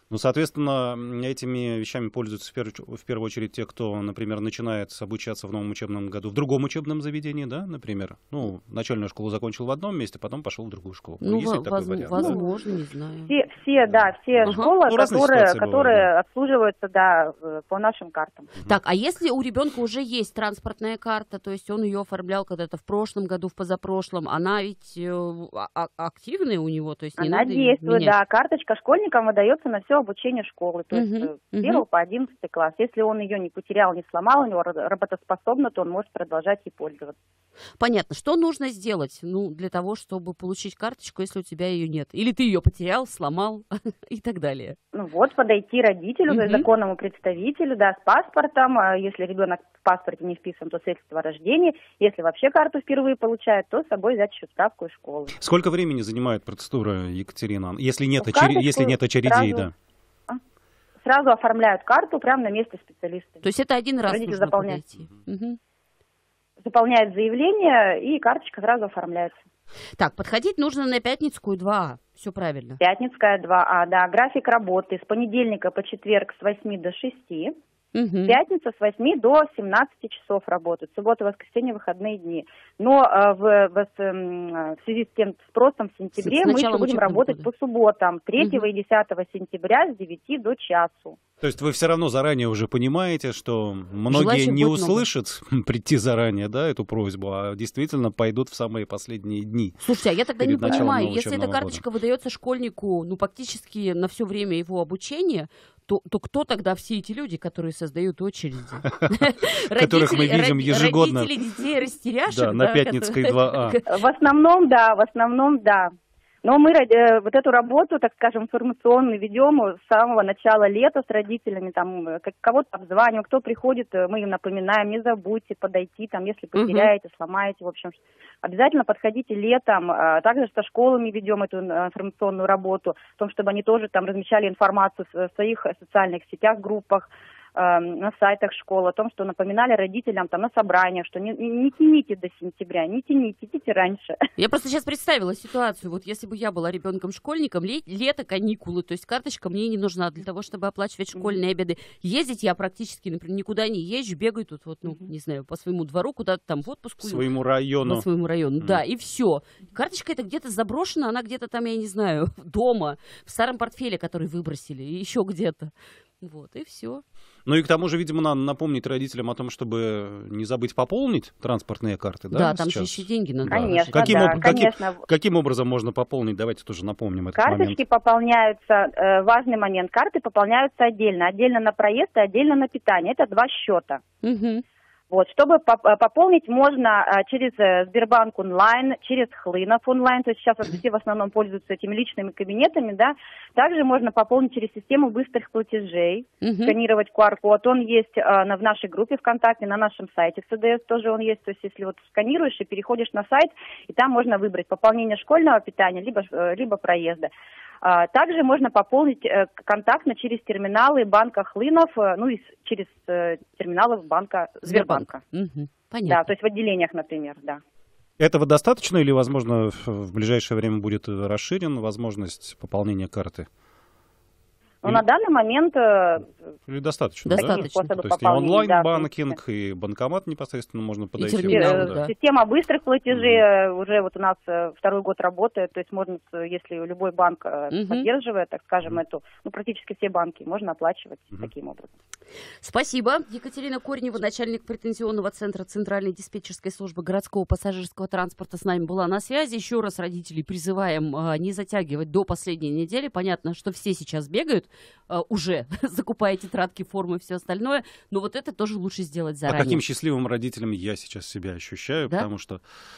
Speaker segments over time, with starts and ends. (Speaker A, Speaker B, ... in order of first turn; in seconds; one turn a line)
Speaker A: 0.1-12.4
Speaker B: 11.2-13.3
Speaker C: 12.1-12.5
Speaker C: 13.2-18.5
Speaker A: 14.3-16.1
Speaker B: 18.6-28.1
Speaker C: 27.2-37.1
Speaker B: 30.9-31.8
Speaker B: 37.8-44.8
Speaker C: 44.9-55.3
Speaker B: 46.3-46.7
Speaker A: 55.4-59.7
Speaker C: 58.2-59.7
Speaker C: 61.0-63.4
Speaker B: 63.4-65.6
Speaker C: 64.1-64.8
Speaker C: 66.6-69.4
Speaker B: 70.0-72.8
Speaker C: 72.8-77.5
Speaker B: 77.9-78.4
Speaker C: 78.3-91.2
Speaker B: 86.2-87.5
Speaker B: 88.4-88.7
Speaker A: 91.4-99.8
Speaker B: 94.1-95.0
Speaker B: 99.8-114.0
Speaker A: 100.4-101.8
Speaker A: 108.9-109.1
Speaker A: 109.7-111.3
Speaker A: 112.3-113.8
Speaker C: 113.8-115.9
Speaker C: 116.4-144.2
Speaker B: 126.5-126.9
Speaker B: 144.4-157.3
Speaker A: 157.0-158.1
Speaker B: 157.8-167.0
Speaker A: 158.6-158.8
Speaker A: 167.4-177.8
Speaker B: 172.3-174.5
Speaker C: 173.4-175.0
Speaker C: 177.3-184.0
Speaker B: 184.2-184.6
Speaker C: 185.1-207.3
Speaker B: 196.4-196.8
Speaker C: 207.8-215.2
Speaker B: 214.6-216.3
Speaker C: 216.1-217.6
Speaker A: 218.2-223.5
Speaker C: 224.8-226.3
Speaker A: 226.7-232.0
Speaker B: 227.2-227.9
Speaker C: 227.3-229.1
Speaker B: 231.2-232.1
Speaker C: 231.3-241.9
Speaker A: 233.1-233.4
Speaker B: 237.7-238.1
Speaker B: 242.6-259.8
Speaker A: 259.5-262.6